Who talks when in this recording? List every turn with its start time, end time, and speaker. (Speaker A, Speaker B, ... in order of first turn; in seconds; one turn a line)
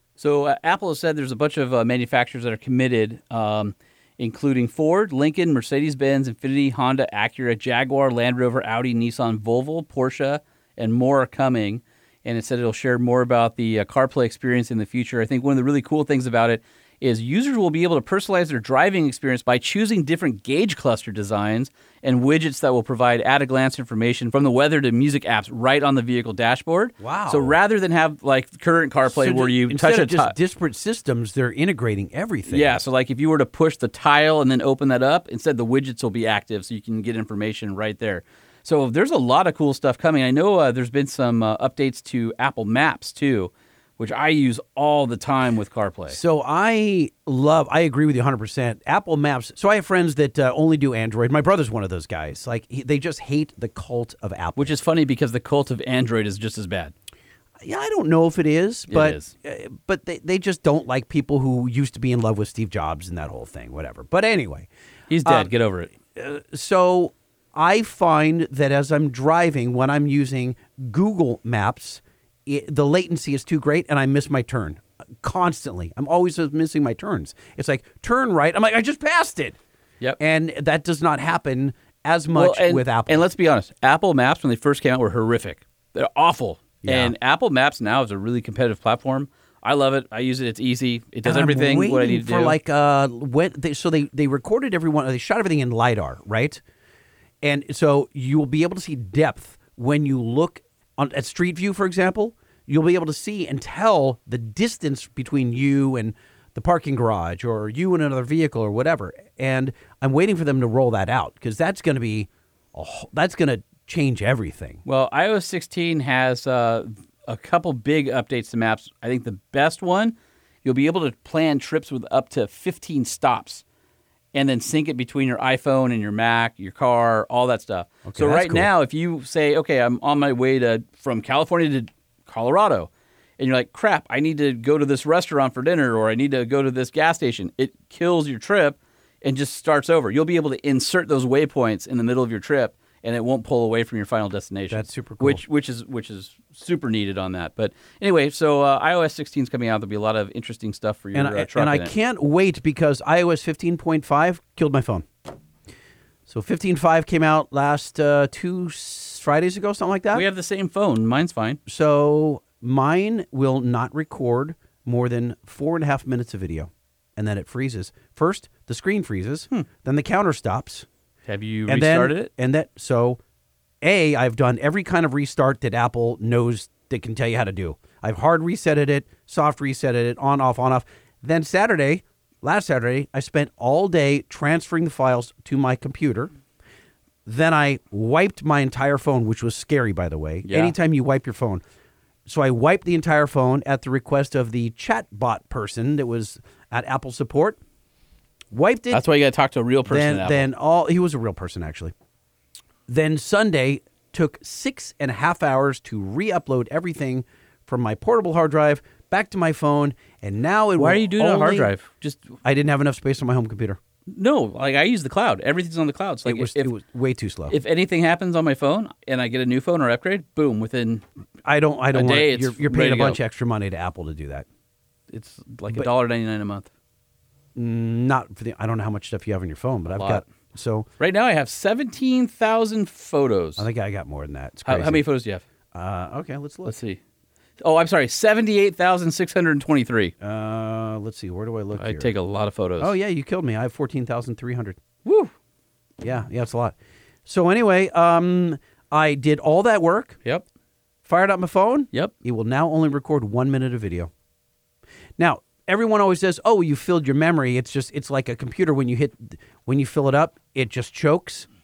Speaker A: 0.2-30.3
Speaker B: 27.0-27.6
Speaker B: 29.1-32.8
Speaker A: 32.5-46.2
Speaker B: 46.1-54.8
Speaker A: 54.5-56.9
Speaker B: 57.6-64.7
Speaker A: 58.9-59.3
Speaker A: 65.1-65.9
Speaker B: 65.2-65.5
Speaker B: 66.1-79.6
Speaker B: 80.2-83.2
Speaker A: 82.3-92.6
Speaker B: 86.8-87.1
Speaker B: 91.2-96.6
Speaker B: 97.4-114.8
Speaker A: 114.8-123.6
Speaker A: 124.3-151.9
Speaker B: 128.0-128.7
Speaker B: 144.7-145.4
Speaker B: 151.1-155.1
Speaker B: 156.3-160.2
Speaker A: 160.1-161.6
Speaker B: 161.7-170.9
Speaker A: 171.3-172.3
Speaker B: 171.7-173.2
Speaker B: 173.8-186.3
Speaker B: 187.2-191.6
Speaker A: 190.4-190.7
Speaker B: 192.2-197.6
Speaker B: 198.5-199.0
Speaker A: 198.9-200.5
Speaker B: 199.8-201.9
Speaker B: 202.9-211.7
Speaker A: 210.8-212.3
Speaker B: 212.4-213.8
Speaker A: 214.1-216.7
Speaker B: 216.2-217.5
Speaker A: 217.5-221.0
Speaker B: 221.4-224.4
Speaker A: 221.9-223.2
Speaker A: 225.1-226.7
Speaker B: 227.6-230.9
Speaker A: 229.9-230.2
Speaker A: 231.0-233.7
Speaker B: 233.6-235.0
Speaker A: 234.6-235.4
Speaker B: 235.7-236.7
Speaker A: 236.6-237.0
Speaker A: 237.6-240.1
Speaker B: 240.2-242.1
Speaker A: 241.8-242.9
Speaker B: 242.8-244.8
Speaker A: 245.0-245.3
Speaker B: 246.0-250.2
Speaker B: 251.0-254.1
Speaker B: 255.2-261.5